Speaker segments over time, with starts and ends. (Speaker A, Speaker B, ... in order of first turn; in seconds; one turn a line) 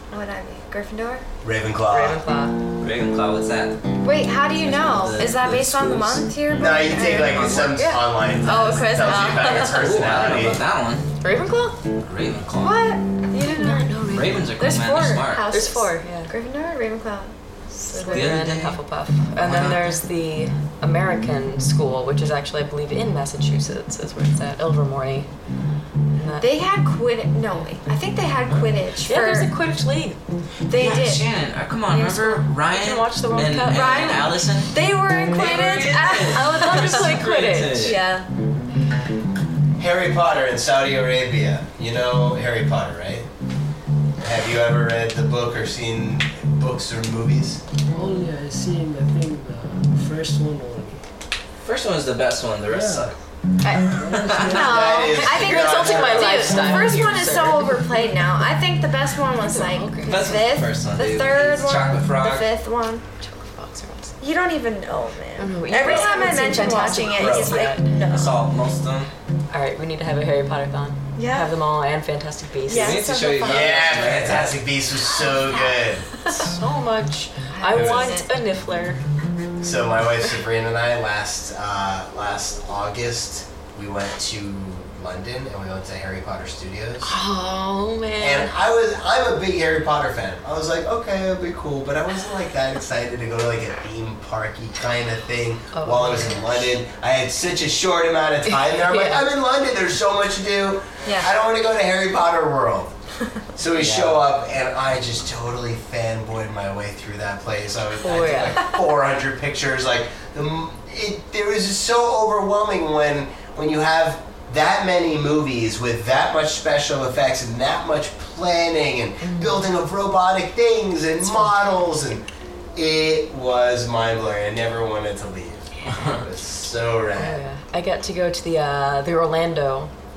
Speaker A: 0.1-1.2
Speaker B: 1.4-2.2
Speaker C: 1.9-2.6
Speaker D: 2.8-3.8
Speaker A: 4.0-10.1
Speaker D: 4.5-7.8
Speaker B: 6.5-10.6
Speaker D: 9.2-11.1
Speaker C: 11.2-11.8
Speaker D: 12.0-12.8
Speaker A: 12.6-14.1
Speaker C: 13.6-14.4
Speaker D: 14.1-15.5
Speaker A: 14.6-18.4
Speaker C: 15.5-16.3
Speaker C: 17.7-25.3
Speaker D: 18.1-18.8
Speaker D: 19.4-20.0
Speaker C: 26.1-26.5
Speaker A: 26.4-29.5
Speaker C: 29.0-30.2
Speaker A: 30.7-31.3
Speaker D: 30.7-38.0
Speaker A: 31.9-32.4
Speaker C: 32.7-34.2
Speaker A: 33.6-38.3
Speaker C: 35.3-38.0
Speaker B: 39.8-43.3
Speaker B: 44.2-47.6
Speaker E: 47.9-51.0
Speaker D: 51.6-53.2
Speaker E: 52.7-53.1
Speaker A: 53.6-63.1
Speaker E: 53.9-54.9
Speaker D: 53.9-54.8
Speaker B: 54.5-56.9
Speaker C: 55.0-57.9
Speaker C: 59.4-60.3
Speaker D: 60.1-62.5
Speaker C: 63.2-64.1
Speaker A: 64.2-68.4
Speaker C: 65.4-68.0
Speaker D: 65.8-69.1
Speaker C: 69.5-73.1
Speaker A: 71.2-71.5
Speaker A: 72.7-74.4
Speaker D: 72.7-74.7
Speaker B: 73.4-76.1
Speaker A: 75.1-76.3
Speaker C: 76.4-79.0
Speaker A: 77.5-78.3
Speaker D: 77.7-78.1
Speaker B: 79.6-87.1
Speaker C: 87.0-88.6
Speaker B: 88.2-103.0
Speaker C: 95.7-96.7
Speaker C: 98.5-99.3
Speaker B: 103.6-127.4
Speaker D: 103.8-104.2
Speaker C: 108.0-108.7
Speaker C: 119.2-119.7
Speaker C: 121.2-121.6
Speaker D: 125.8-126.2
Speaker C: 127.2-129.9